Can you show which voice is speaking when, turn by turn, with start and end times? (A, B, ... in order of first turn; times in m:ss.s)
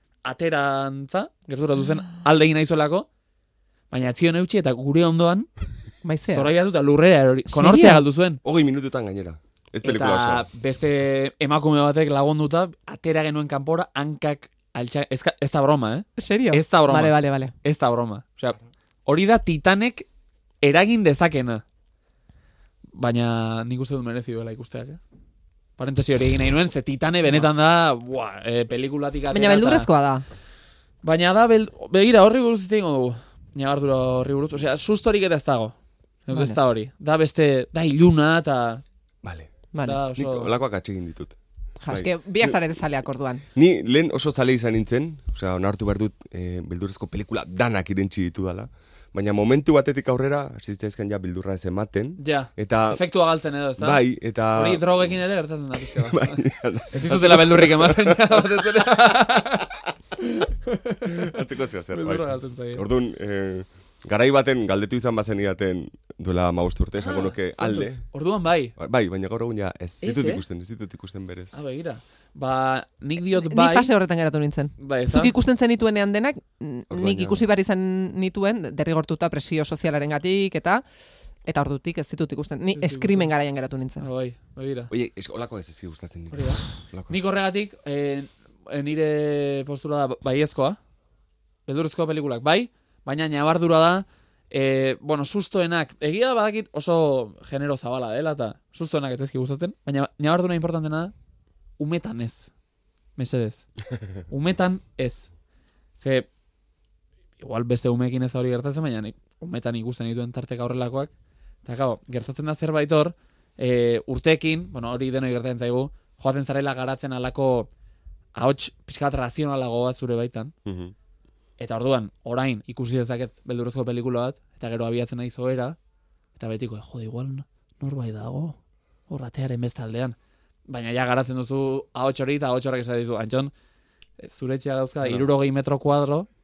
0:00.2-0:03.1 A
0:03.9-0:05.5 A
0:06.0-0:06.5 B
0:06.3-0:08.4 A
0:07.5-0:08.0 B
0:08.4-0:10.5 C
0:09.8-0:20.1 A
0:16.2-0:17.5 B
0:20.6-0:21.6 A
0:22.9-0:25.0 A
0:25.8-0:29.9 A
0:29.3-0:30.2 B
0:31.0-0:38.8 A
0:36.3-0:36.6 B
0:39.2-0:39.5 C
0:39.7-0:40.0 B
0:39.8-0:40.5 A
0:40.2-0:41.3 C
0:41.8-0:43.4 B
0:41.9-0:42.5 C
0:43.5-0:53.0 C
0:52.2-1:01.3 A
0:53.8-0:55.1 C
0:55.9-0:58.3 C
1:01.0-1:08.0 C
1:01.9-1:02.8 A
1:07.0-1:08.7 A
1:08.8-1:11.6 C
1:10.0-1:10.4 A
1:11.5-1:13.9 A
1:13.3-1:20.8 B
1:14.8-1:15.3 A
1:16.9-1:17.5 C
1:21.4-1:24.0 B
1:22.7-1:23.3 A
1:24.0-1:24.9 A
1:24.9-1:27.2 C
1:26.3-1:30.8 A
1:31.6-1:41.1 A
1:41.8-1:42.5 A
1:43.2-1:43.6 A
1:44.3-1:45.2 A
1:46.0-1:46.3 A
1:47.4-1:51.1 A
1:51.6-1:57.7 A
1:58.3-2:00.5 A
2:00.6-2:00.9 C
2:01.6-2:05.8 A
2:06.3-2:10.2 A
2:10.7-2:13.5 A
2:14.2-2:16.3 A